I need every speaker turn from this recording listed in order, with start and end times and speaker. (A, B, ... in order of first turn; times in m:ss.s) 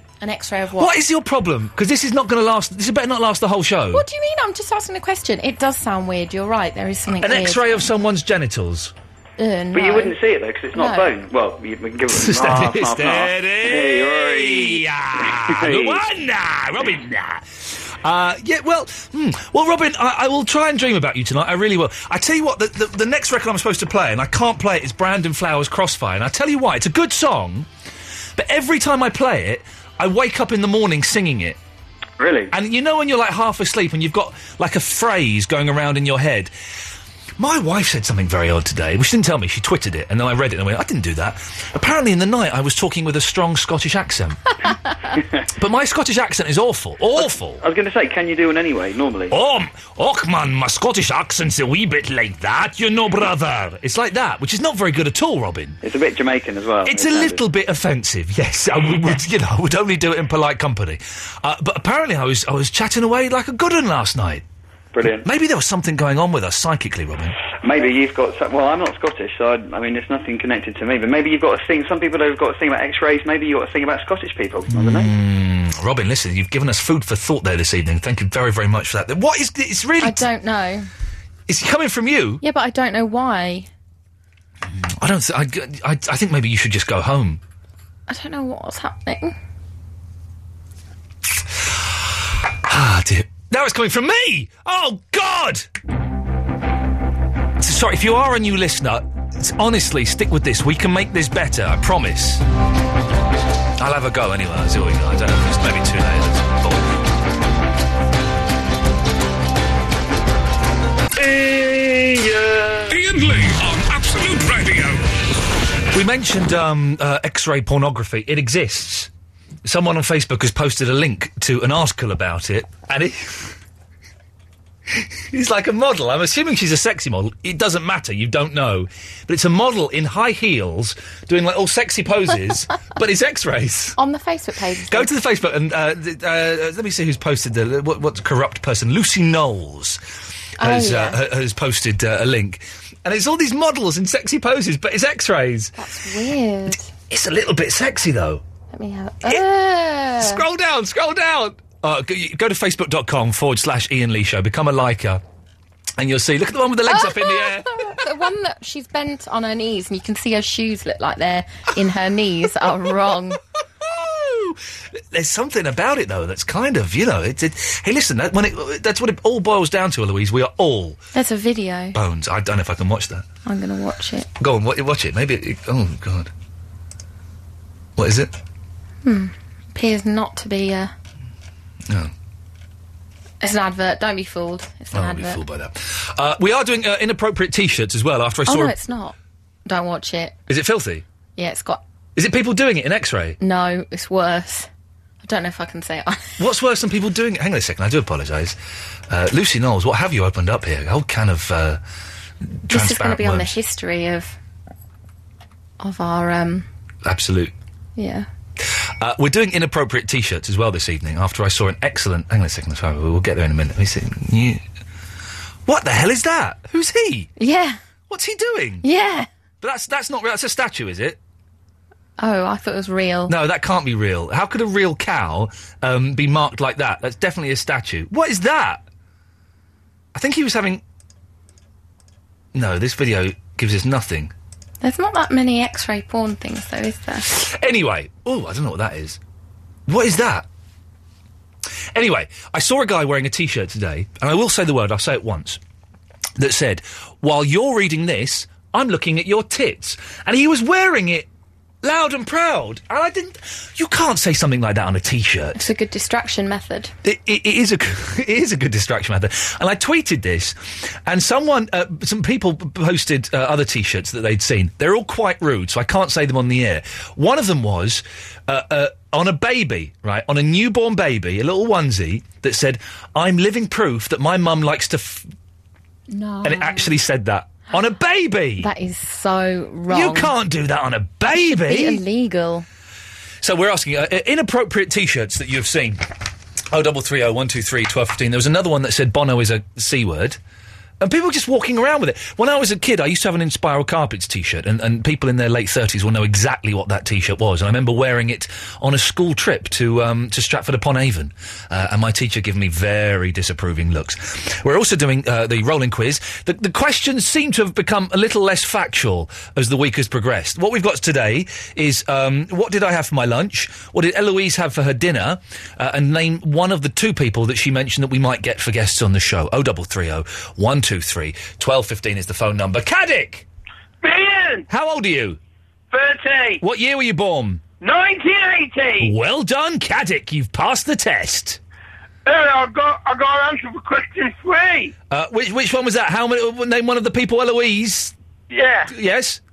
0:00.2-0:01.0 A
0:00.8-0:04.1 B
0:03.9-0:07.8 A
0:07.2-0:08.9 B
0:09.4-0:10.2 A
0:09.7-0:16.0 C
0:10.7-0:11.1 A
0:12.1-0:27.7 B
0:28.4-0:31.6 B
0:32.2-0:32.5 C
0:32.5-0:36.5 B
0:37.4-0:44.4 B
0:45.6-0:47.6 B
0:47.2-0:49.4 C
0:49.3-0:55.8 B
0:55.8-0:57.4 C
0:56.8-1:04.4 B
1:04.9-1:05.2 C
1:05.2-1:07.4 B
1:07.6-1:15.1 C
1:14.7-1:20.2 B
1:20.0-1:20.9 A
1:21.5-1:22.4 B
1:22.4-1:23.7 A
1:24.7-1:27.4 B
1:28.1-1:29.4 A
1:31.6-1:35.7 B
1:37.6-1:42.4 B
1:43.8-1:46.9 B
1:51.4-1:52.6 D
1:52.9-1:55.0 E
1:55.9-1:59.1 B
1:59.6-2:03.5 B
2:04.9-2:14.0 B
2:14.0-2:15.1 A
2:14.9-2:20.0 B
2:20.6-2:21.2 A
2:20.6-2:25.7 B
2:25.8-2:26.9 A
2:27.1-2:28.4 B
2:28.7-2:30.4 A
2:30.2-2:35.2 B
2:36.0-2:38.0 B
2:36.9-2:43.4 A
2:43.8-2:51.0 B
2:51.1-2:52.0 A
2:51.9-2:53.2 B
2:53.4-2:54.3 A
2:54.4-2:56.3 B
2:58.0-2:58.4 B
2:59.0-3:00.9 A
3:01.9-3:02.1 B
3:03.4-3:05.4 A
3:04.9-3:08.8 B
3:08.4-3:10.4 A
3:10.5-3:11.0 B
3:11.4-3:11.8 A
3:12.2-3:13.4 B
3:13.4-3:14.7 A
3:15.2-3:16.3 A
3:16.4-3:18.6 B
3:19.1-3:21.8 B
3:22.6-3:23.6 B
3:22.7-3:24.4 A
3:25.8-3:26.7 A
3:27.0-3:27.5 B
3:28.0-3:28.3 A
3:28.6-3:34.6 B
3:35.6-3:37.3 B
3:37.4-3:37.8 A
3:38.1-3:38.8 B
3:38.8-3:39.3 A
3:39.6-3:41.2 B
3:42.2-3:43.4 A
3:43.3-3:48.8 B
3:50.1-3:50.8 B
3:52.5-3:54.3 B
3:54.8-3:57.3 A
3:57.3-3:59.2 B
3:59.9-4:00.4 B
4:01.9-4:05.6 B
4:06.4-4:11.3 B
4:11.8-4:15.6 B
4:15.6-4:16.9 A
4:17.0-4:35.3 B
4:36.1-4:37.0 A
4:36.4-4:38.7 B
4:38.6-4:40.3 A
4:39.9-4:42.0 B
4:41.3-4:42.6 A
4:43.4-4:46.0 B
4:46.7-4:50.4 B
4:51.0-5:23.4 B
5:24.0-5:24.7 D
5:24.7-5:25.4 B
5:25.9-5:26.6 D
5:26.6-5:27.6 B
5:27.8-5:29.1 D
5:29.0-5:31.6 B
5:32.2-5:34.9 D
5:35.1-5:38.1 B
5:38.5-5:38.9 D
5:38.9-5:39.4 B